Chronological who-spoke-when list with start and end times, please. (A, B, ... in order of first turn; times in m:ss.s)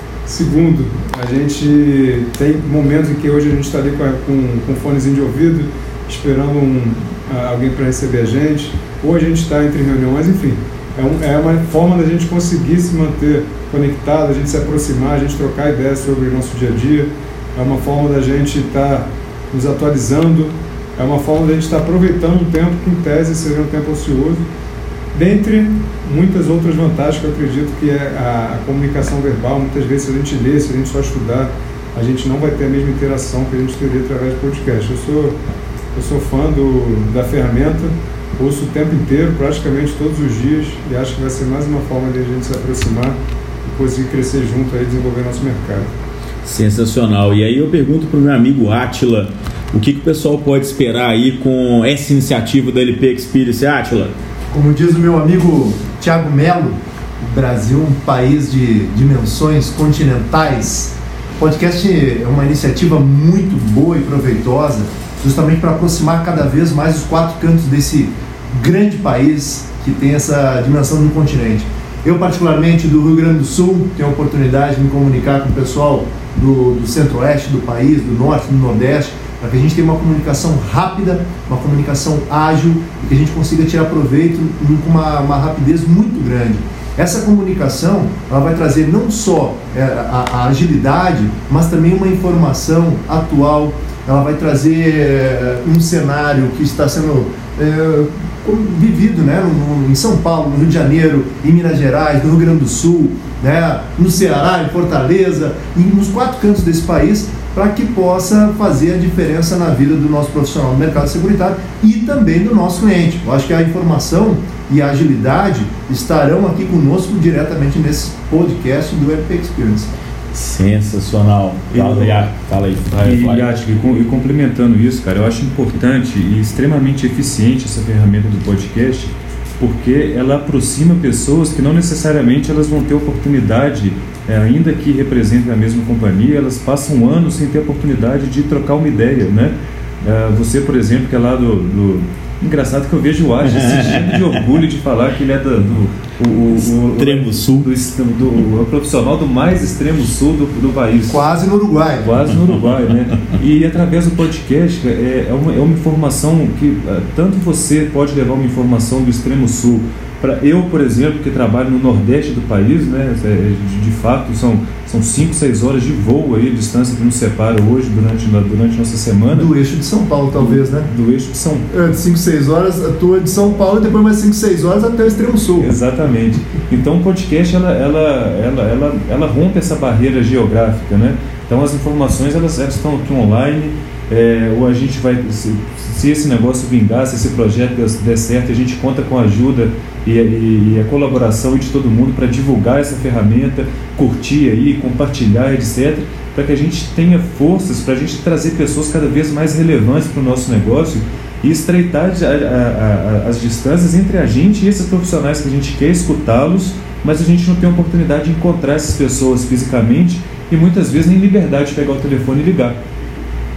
0:00.2-0:24.4 A
0:25.1-0:35.4 A
0:36.0-0:45.9 A
0:46.4-0:54.2 B
0:54.5-1:59.9 C
2:00.3-2:03.5 B
2:01.7-2:02.3 D
2:03.0-2:31.2 D
2:23.4-2:24.4 B
2:27.0-2:27.7 B
2:31.1-2:32.1 C
2:32.0-2:49.5 D
2:49.3-2:50.9 C
2:50.4-2:51.7 D
2:51.7-2:55.7 C
2:55.6-3:32.8 D